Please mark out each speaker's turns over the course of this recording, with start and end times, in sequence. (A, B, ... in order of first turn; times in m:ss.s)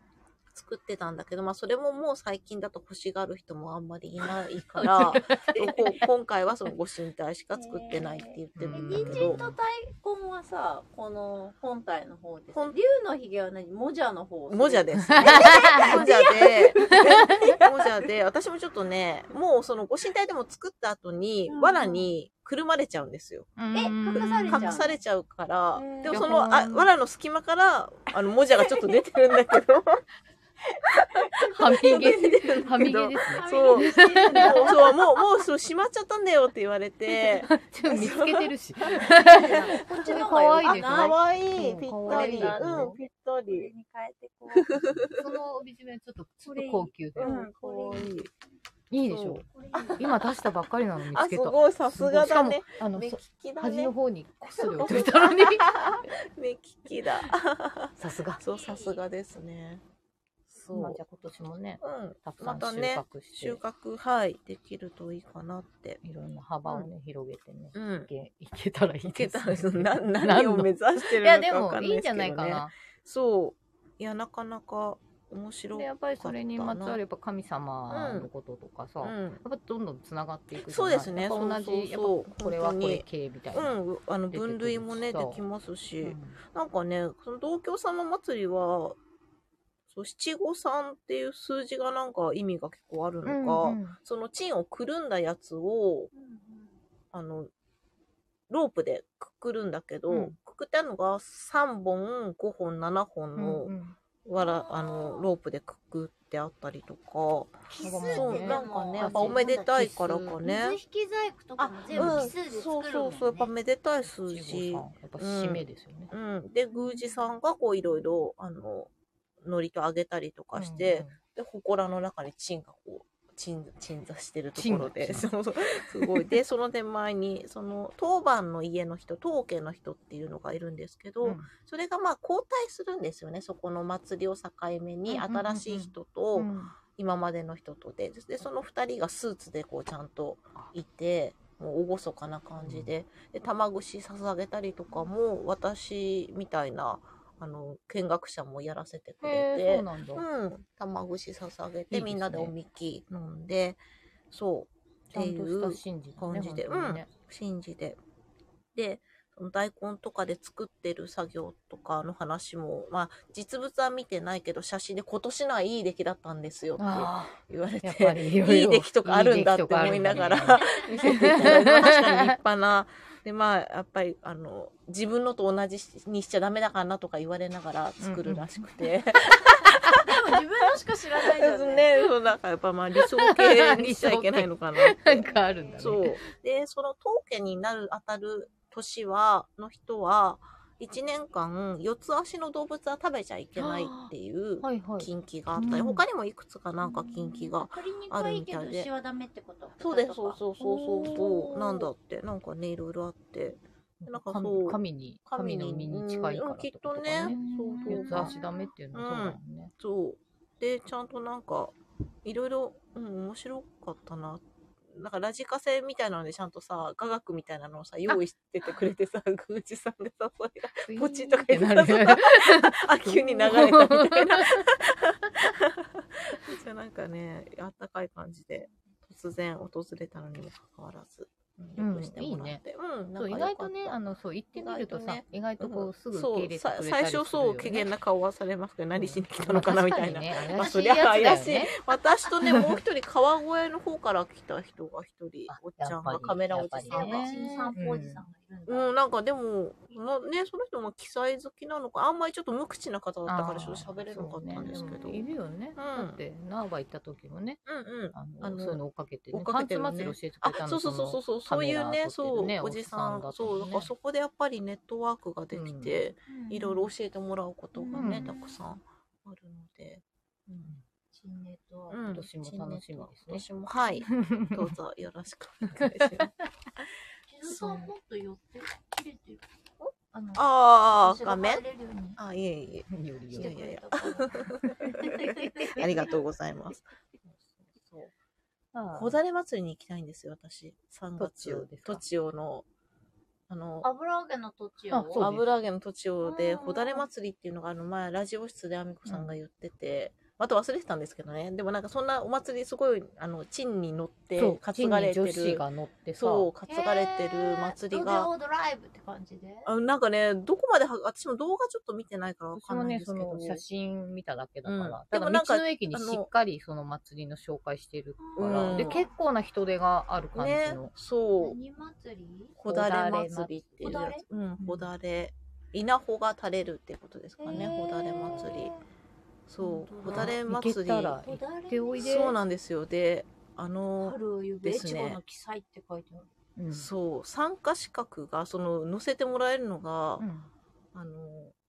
0:00.5-0:09.4 A
0:04.7-0:06.1 B
0:04.9-0:05.6 C
0:07.5-0:17.6 B
0:08.6-0:09.6 C
0:14.5-0:23.5 A
0:14.9-0:16.0 C
0:21.5-0:22.1 B
0:23.6-0:24.8 C
0:23.7-0:25.0 B
0:24.2-0:30.0 A
0:25.8-0:26.2 B
0:26.1-0:26.9 C
0:31.0-0:35.4 B
0:31.4-0:43.7 A
0:31.5-0:34.5 C
0:37.5-0:43.0 C
0:39.0-0:41.2 B
0:41.9-0:45.3 B
0:44.5-0:45.2 A
0:45.2-0:47.4 C
0:46.4-0:48.2 B
0:47.2-0:48.3 A
0:48.9-0:49.4 C
0:49.1-0:50.1 A
0:49.5-0:50.2 B
0:50.0-0:56.1 C
0:51.1-0:53.9 A
0:54.6-0:59.8 A
0:54.8-0:55.0 B
0:58.0-0:58.4 C
0:58.4-0:59.0 B
1:00.5-1:01.0 A
1:00.7-1:03.6 C
1:01.8-1:06.0 A
1:06.0-1:12.7 C
1:07.7-1:08.1 A
1:09.1-1:17.0 A
1:15.7-1:23.8 C
1:17.9-1:18.3 A
1:19.0-1:19.4 A
1:20.6-1:29.0 A
1:24.3-1:25.4 C
1:26.0-1:26.4 C
1:29.9-1:36.1 A
1:33.2-1:34.0 C
1:36.1-1:36.8 B
1:37.1-1:37.5 A
1:38.5-1:50.8 A
1:43.4-1:44.0 C
1:44.4-1:45.3 B
1:47.7-1:49.9 B
1:47.8-1:50.4 C
1:50.4-1:53.5 B
1:51.6-1:58.9 A
1:51.9-1:52.3 C
1:54.0-1:56.1 C
1:56.7-1:57.2 B
1:59.4-2:38.0 A
2:00.5-2:01.2 C
2:04.6-2:05.3 C
2:06.0-2:06.3 C
2:11.2-2:11.5 C
2:15.1-2:16.8 C
2:22.6-2:22.9 C
2:29.2-2:30.2 C
2:31.9-2:32.5 C
2:35.1-2:37.1 C
2:38.7-3:00.0 A
2:46.8-2:52.4 C
2:50.7-2:51.3 B
2:58.0-2:58.7 C
2:59.9-3:02.1 B
3:01.4-3:05.3 A
3:03.2-3:06.2 C
3:05.2-3:06.1 B
3:05.8-3:18.9 A
3:13.6-3:14.1 C
3:14.6-3:16.0 C
3:15.6-3:15.9 B
3:16.8-3:21.9 B
3:19.8-3:28.3 A
3:24.0-3:29.7 C
3:27.2-3:28.7 B
3:28.9-3:54.0 A
3:40.8-3:44.7 C
3:51.8-3:52.6 C
3:53.2-3:57.9 C
3:54.6-4:07.8 A
3:59.0-4:01.7 C
4:00.5-4:01.5 B
4:05.5-4:08.2 C
4:06.8-4:09.0 B
4:08.7-4:16.2 A
4:13.3-4:17.6 C
4:14.7-4:15.0 B
4:17.7-4:30.8 A
4:18.1-4:23.9 C
4:25.5-4:26.0 C
4:26.3-4:26.9 B
4:27.8-4:28.6 B
4:27.9-4:28.3 C
4:31.1-4:32.2 B
4:31.9-4:36.3 A
4:32.1-4:33.5 C
4:34.1-4:34.8 C
4:35.7-4:36.3 C
4:37.3-4:39.5 B
4:37.5-4:37.9 A
4:39.8-4:41.6 A
4:40.2-4:42.2 B
4:42.2-4:48.1 A
4:42.9-4:43.6 C
4:43.3-4:46.5 B
4:48.7-4:49.2 C
4:48.9-4:52.7 A
4:51.2-4:52.0 C
4:53.5-4:53.9 A
4:53.8-4:55.3 B
4:54.9-4:55.4 C
4:55.2-5:05.7 A
4:56.2-4:57.0 B
4:59.1-4:59.4 C
5:04.4-5:06.5 C
5:06.2-5:08.3 A
5:06.7-5:09.7 B
5:09.7-5:13.6 A
5:12.5-5:20.9 C
5:14.6-5:16.3 A
5:18.2-5:19.2 B
5:18.4-5:19.0 A
5:20.4-5:21.6 A
5:21.4-5:22.6 B
5:22.6-5:28.7 A
5:22.6-5:23.7 C
5:23.8-5:24.2 B
5:24.6-5:24.9 C
5:27.4-5:28.8 B
5:27.5-5:27.8 C
5:29.5-5:31.2 A
5:29.6-5:30.4 B
5:30.0-5:32.4 C
5:31.2-5:32.3 B
5:32.0-5:35.2 A
5:34.0-5:36.3 B
5:36.6-5:36.9 C
5:36.7-5:40.2 A
5:40.2-5:40.5 C
5:40.9-5:41.5 A